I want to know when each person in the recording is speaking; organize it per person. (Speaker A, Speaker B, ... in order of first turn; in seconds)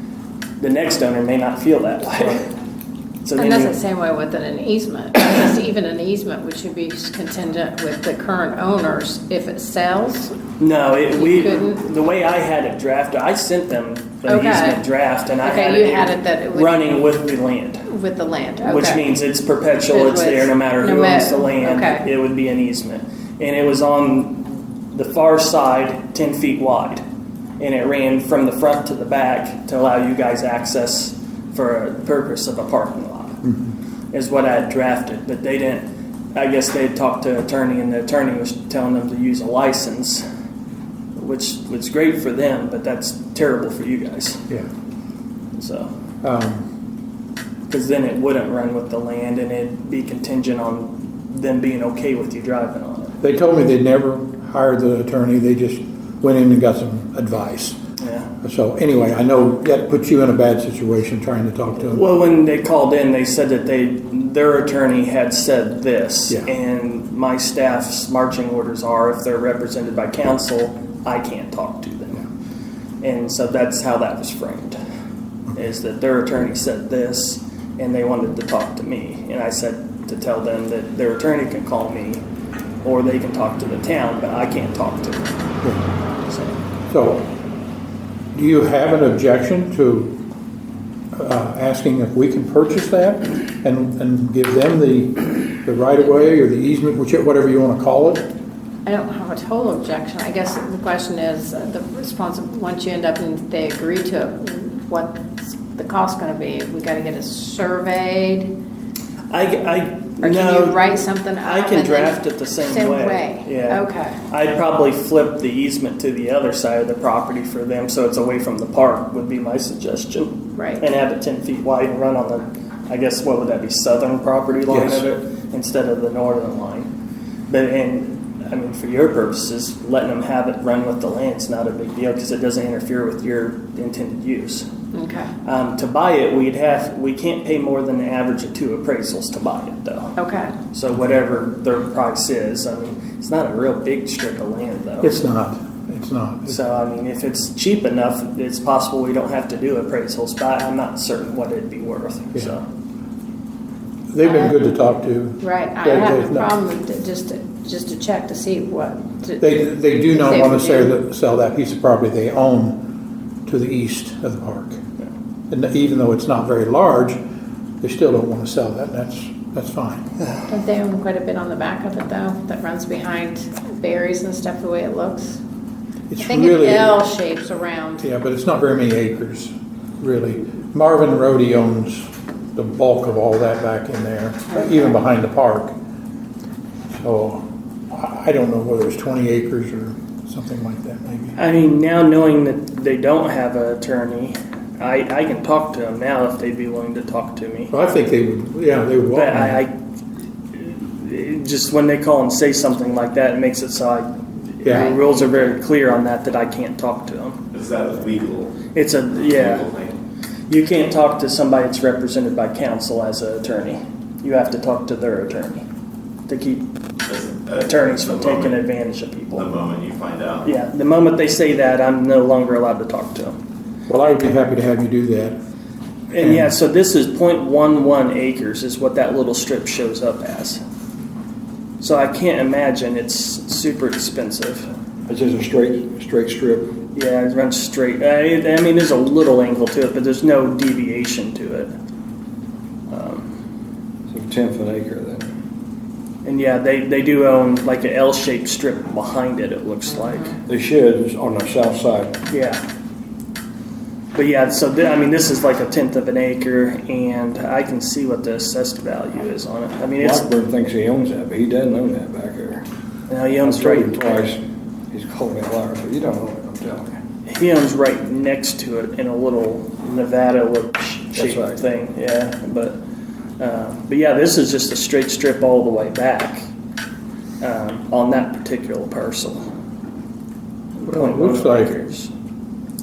Speaker A: 0.6-2.5, 3.2-3.7, 10.6-17.9, 18.6-27.0, 27.6-33.4, 34.1-40.2, 41.1-44.4, 45.5-45.9, 47.7-53.1, 58.0-58.3, 61.9-72.2, 73.0-74.8, 75.5-82.2, 82.8-85.3, 86.2-86.5, 109.3-126.9, 127.5-134.7, 135.4-140.2, 140.7-145.2, 146.5-152.6, 191.3-197.7, 199.1-199.7, 200.5-207.4, 208.7-209.7, 210.5-215.6, 216.3-216.7, 217.5-219.5, 220.4-223.4, 226.1-230.6, 231.8-234.7, 236.9-241.7, 242.9-243.3, 246.2-250.4, 252.3-252.6, 254.1-260.2, 263.1-264.2, 267.2-272.8, 273.4-276.4, 277.4-279.4, 280.8-282.1
Speaker B: 3.4-10.4, 11.1-11.8, 14.3-14.8, 15.4-17.0, 17.9-19.0, 19.9-22.1, 98.8-108.5, 110.2-114.2, 120.5-120.8, 134.9-135.3, 140.2-140.5, 154.2-154.6, 155.4-160.9, 170.5-175.4, 176.2-178.1, 204.7-205.0
Speaker C: 33.4-33.7, 46.2-46.7, 53.2-57.8, 58.4-62.0, 86.9-87.3, 88.3-90.2, 91.1-98.3, 124.7-125.0, 145.0-146.6, 154.1-156.5, 159.4-162.8, 163.4-164.8, 165.5-167.2, 167.8-170.1, 176.1-177.0, 178.0-185.7, 186.9-191.4, 197.7-199.6, 223.9-225.4, 226.2-226.5, 280.8-281.7
Speaker D: 207.5-208.5, 209.2-209.9, 217.1-218.6, 219.3-220.5
Speaker E: 235.1-236.7, 244.1-245.3, 250.5-252.1, 260.0-262.6, 263.4-267.0, 271.1-271.6